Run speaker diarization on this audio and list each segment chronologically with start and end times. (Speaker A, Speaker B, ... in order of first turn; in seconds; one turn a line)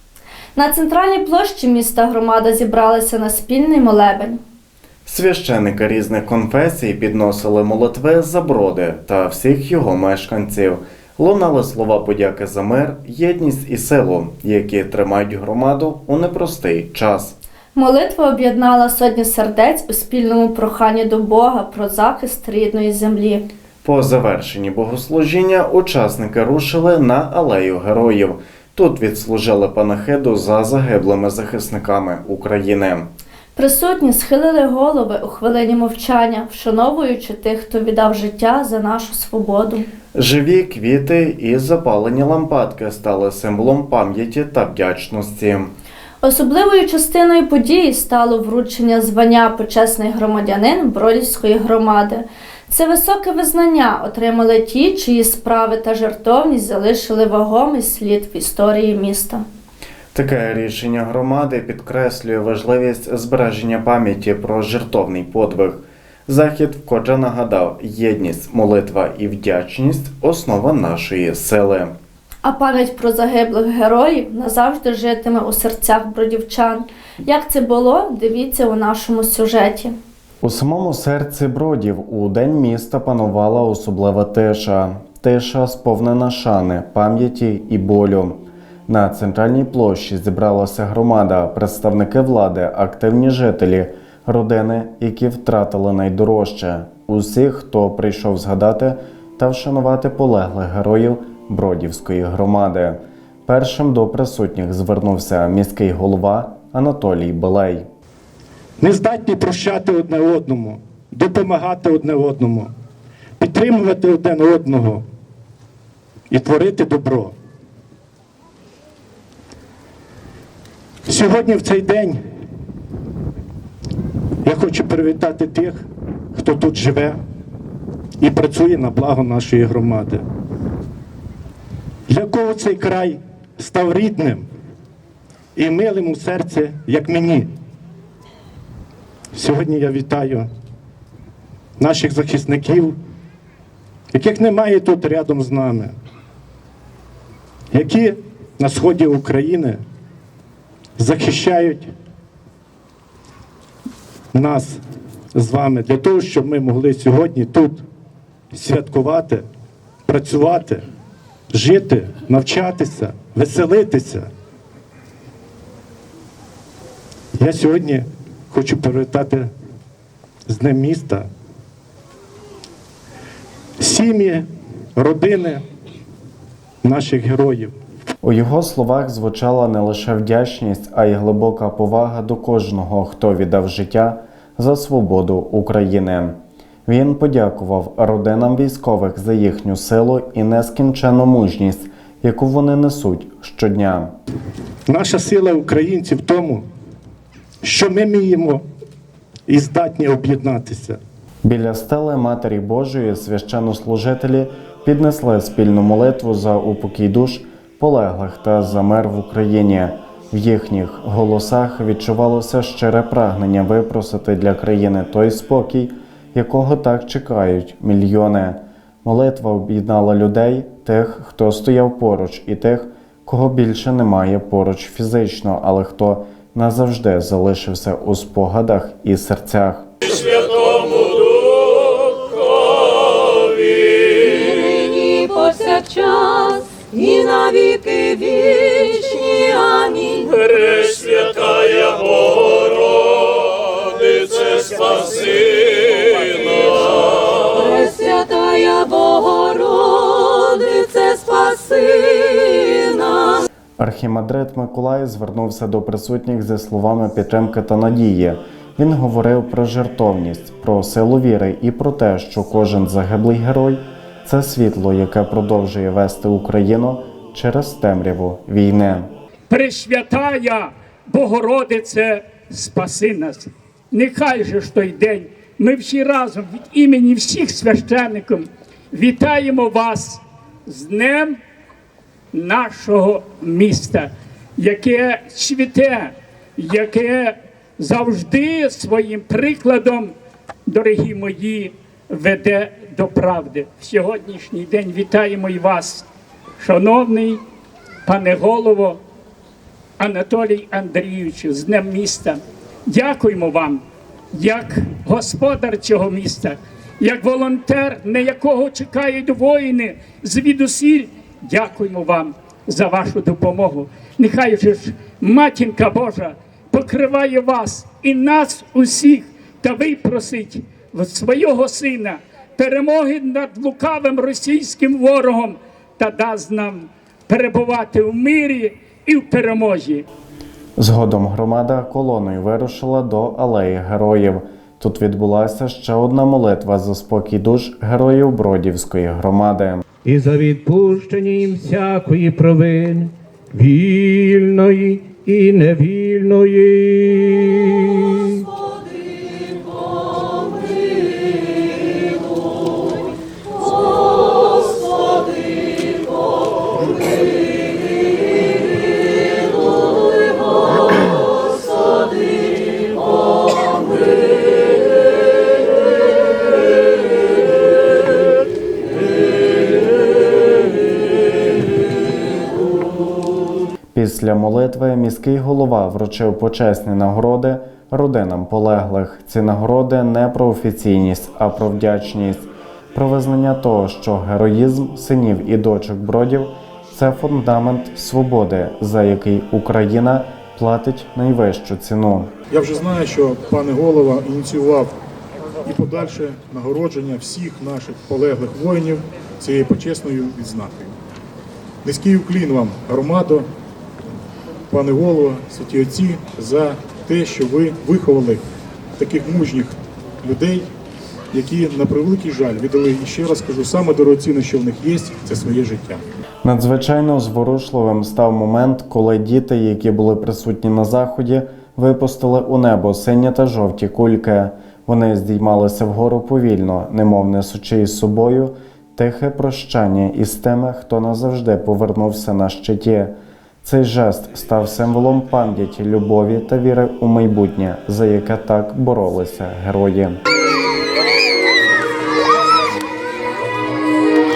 Speaker A: 0.6-4.4
Speaker B: 5.1-17.4
Speaker A: 17.8-23.4
Speaker B: 23.8-33.1
Speaker A: 33.5-39.9
Speaker B: 40.1-45.7
Speaker A: 46.2-59.4
Speaker B: 60.1-71.9
Speaker A: 72.4-80.0
Speaker B: 80.4-107.9
Speaker C: 108.8-112.7
Speaker C: 113.4-115.0
Speaker C: 116.3-117.3
Speaker C: 121.1-122.2
Speaker C: 124.4-127.2
Speaker C: 128.2-130.2
Speaker C: 132.1-134.5
Speaker C: 135.6-137.5
Speaker C: 139.3-140.5
Speaker C: 141.8-143.0
Speaker C: 144.1-145.9
Speaker C: 147.7-149.8
Speaker C: 151.0-151.9
Speaker C: 154.3-154.8
Speaker C: 155.3-157.8
Speaker C: 158.5-159.5
Speaker C: 160.1-160.9
Speaker C: 161.5-164.3
Speaker C: 167.4-169.5
Speaker C: 170.5-171.3
Speaker C: 173.8-175.6
Speaker C: 176.8-177.8
Speaker B: 178.2-194.2
Speaker C: 194.9-196.6
Speaker C: 197.6-198.6
Speaker C: 199.5-201.0
Speaker B: 201.4-229.9
Speaker D: 234.3-240.4
Speaker E: 240.9-241.3
Speaker D: 247.6-253.4
Speaker B: 253.8-269.1
Speaker E: 269.5-281.4
Speaker E: 282.3-290.1
Speaker E: 290.7-296.1
Speaker E: 296.6-297.4
Speaker E: 298.1-299.0
Speaker E: 300.0-330.1
Speaker B: 330.8-339.9
Speaker F: 340.1-348.1
Speaker B: 373.9-392.3
Speaker G: 392.5-394.9
Speaker G: 395.6-400.9
Speaker G: 401.8-403.5
Speaker G: 404.7-408.4
Speaker G: 409.0-410.7
Speaker G: 411.3-416.0
Speaker B: 416.4-440.2